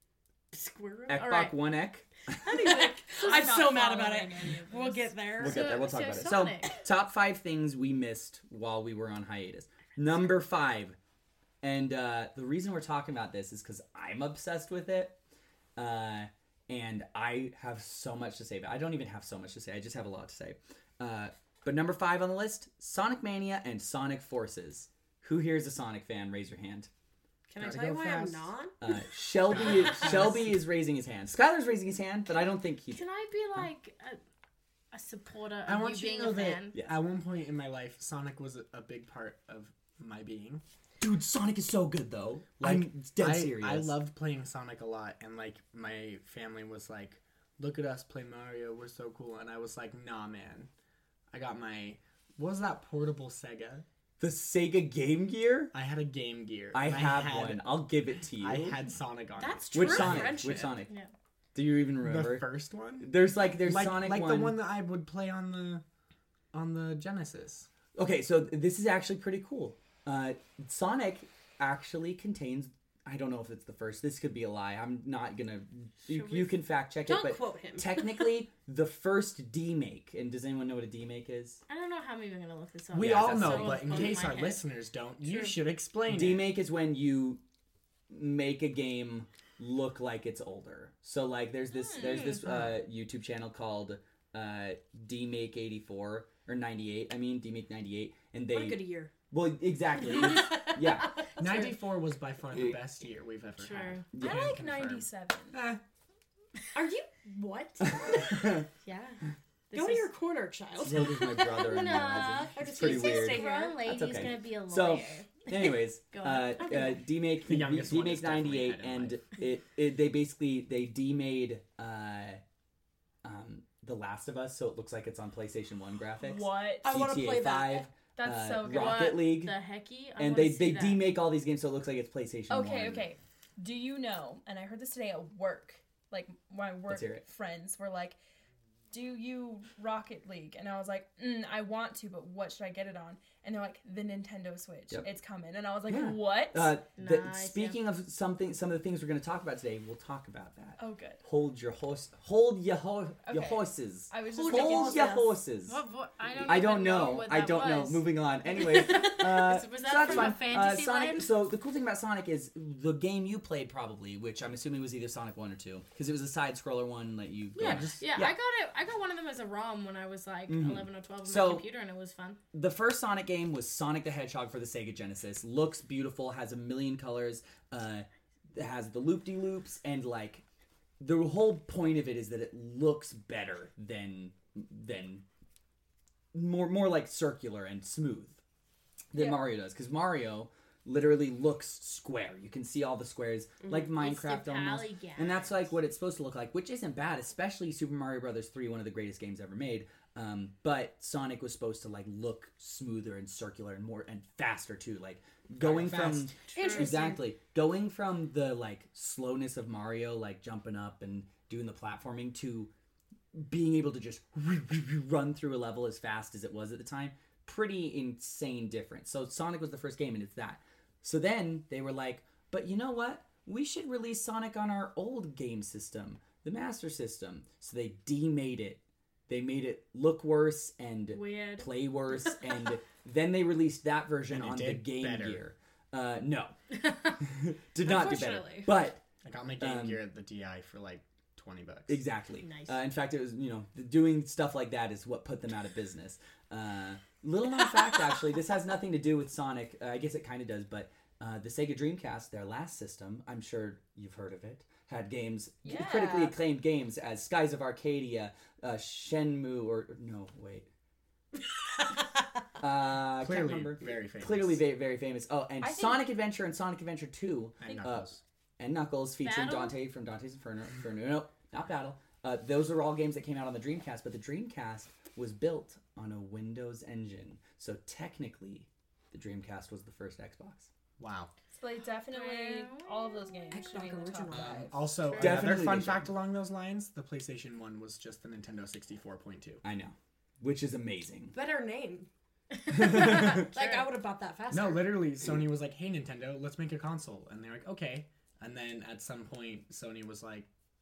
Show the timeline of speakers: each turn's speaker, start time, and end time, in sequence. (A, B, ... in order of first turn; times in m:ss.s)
0:00.5-0:01.6 A
0:01.1-0:02.5 B
0:02.4-0:05.2 C
0:02.5-0:05.6 D
0:05.4-0:06.7 A
0:05.4-0:11.0 B
0:11.6-0:15.2 B
0:15.8-0:26.9 B
0:27.5-0:28.7 D
0:27.6-0:28.5 E
0:28.8-0:33.0 B
0:29.5-0:30.6 E
0:32.9-0:34.2 A
0:34.9-0:36.7 A
0:35.7-0:40.6 E
0:36.7-0:37.0 B
0:41.0-0:44.0 B
0:42.6-0:50.7 E
0:51.3-0:53.9 E
0:54.2-0:55.7 B
0:55.7-0:57.7 E
0:56.7-0:58.8 B
0:58.4-1:00.6 E
0:59.4-1:00.8 D
0:59.7-1:00.9 B
1:01.6-1:04.6 B
1:02.0-1:05.8 E
1:06.5-1:07.7 E
1:08.0-1:21.6 B
1:16.1-1:16.5 A
1:17.1-1:18.3 D
1:21.7-1:24.6 A
1:22.9-1:26.5 E
1:22.9-1:24.2 B
1:25.2-1:25.6 A
1:26.1-1:27.4 B
1:28.1-1:41.2 B
1:31.7-1:32.4 C
1:32.0-1:32.4 A
1:32.4-1:32.8 E
1:38.5-1:39.1 D
1:40.0-1:41.0 D
1:41.4-1:41.8 A
1:41.4-1:45.8 E
1:42.5-1:42.8 B
1:43.6-1:44.1 A
1:44.1-1:44.6 B
1:44.2-1:45.6 C
1:46.7-1:48.5 D
1:47.9-1:48.6 B
1:48.8-1:50.1 A
1:49.7-1:53.8 D
1:50.8-2:02.4 B
1:51.6-1:57.0 A
1:57.4-1:59.2 E
2:03.2-2:09.6 B
2:06.2-2:07.0 C
2:06.8-2:07.9 D
2:08.1-2:09.2 C
2:08.6-2:11.1 A
2:10.2-2:13.1 B
2:12.5-2:18.2 C
2:16.9-2:17.2 B
2:18.9-2:26.8 C
2:25.9-2:35.8 B
2:27.0-2:27.8 A
2:30.8-2:31.2 C
2:33.3-2:33.6 A
2:34.1-2:35.4 C
2:34.3-2:35.2 D
2:35.0-2:41.3 A
2:36.4-2:48.4 B
2:47.6-2:52.4 A
2:47.6-2:48.0 E
2:50.5-2:51.6 B
2:52.5-3:00.4 B
3:01.0-3:05.2 B
3:06.3-3:08.4 B
3:09.1-3:32.7 B
3:09.2-3:09.4 A
3:13.6-3:13.9 D
3:14.0-3:15.6 A
3:25.6-3:26.8 E
3:26.6-3:27.2 D
3:26.6-3:26.9 A
3:33.3-3:56.6 B
3:51.1-3:51.7 A
3:54.3-3:55.4 E
3:57.2-3:59.0 B
3:57.8-3:58.7 A
3:58.1-3:58.5 D
3:59.2-4:02.0 E
3:59.6-4:00.0 B
4:01.9-4:20.7 B
4:02.4-4:02.8 A
4:15.6-4:16.4 C
4:22.6-4:40.7 B
4:23.1-4:24.6 E
4:25.6-4:26.1 C
4:27.6-4:28.2 E
4:29.2-4:29.8 A
4:41.0-4:41.3 E
4:41.5-4:44.7 C
4:42.1-4:43.6 A
4:43.5-4:44.9 D
4:44.3-4:49.6 E
4:45.2-4:46.1 B
4:49.6-4:51.4 B
4:51.3-4:52.1 D
4:52.7-4:54.9 D
4:52.7-4:53.5 B
4:52.8-4:53.9 A
4:54.5-5:00.5 E